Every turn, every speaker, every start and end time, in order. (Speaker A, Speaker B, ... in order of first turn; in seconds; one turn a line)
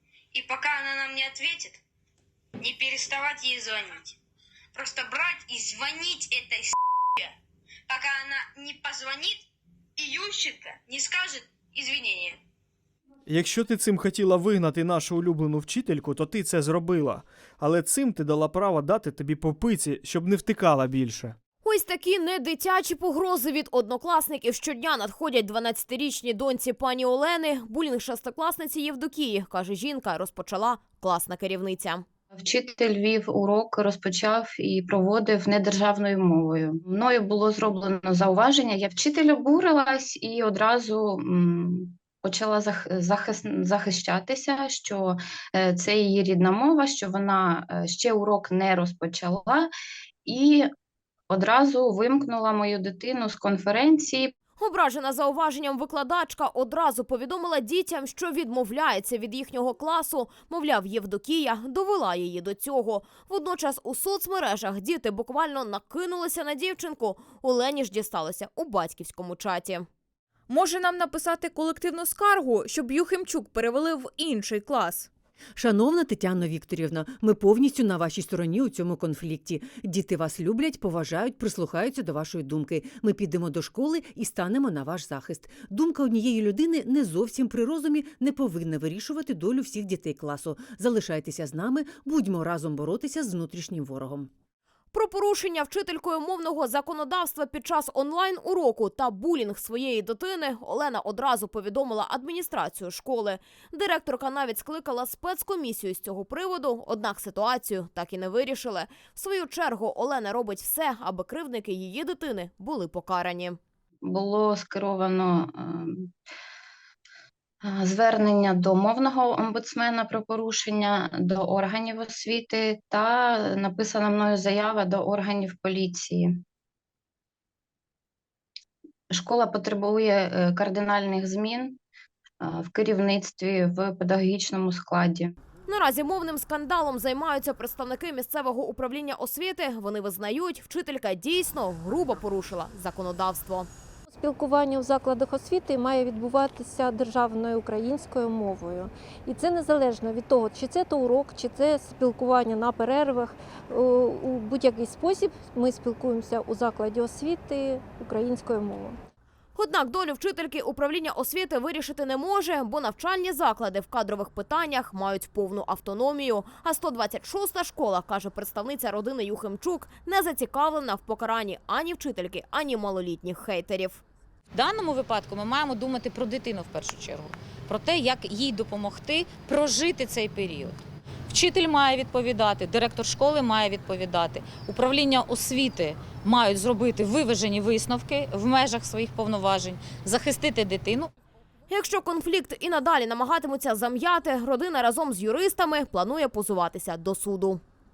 Speaker A: 0.3-1.8
Speaker A: 2.6-4.2
Speaker A: 4.7-7.3
Speaker A: 7.9-12.4
Speaker B: 13.3-21.4
Speaker C: 21.6-32.0
Speaker D: 32.4-49.7
Speaker D: 50.2-50.7
Speaker D: 51.3-54.3
Speaker C: 54.6-69.9
Speaker E: 70.5-75.1
Speaker F: 75.5-94.3
Speaker C: 94.9-113.6
Speaker D: 114.0-116.1
Speaker D: 117.6-126.4
Speaker D: 129.1-131.8
Speaker D: 132.4-135.3
Speaker C: 135.7-143.7
Speaker G: 144.1-159.0
Speaker C: 159.5-174.0
Speaker H: 174.5-191.1
Speaker C: 191.7-197.6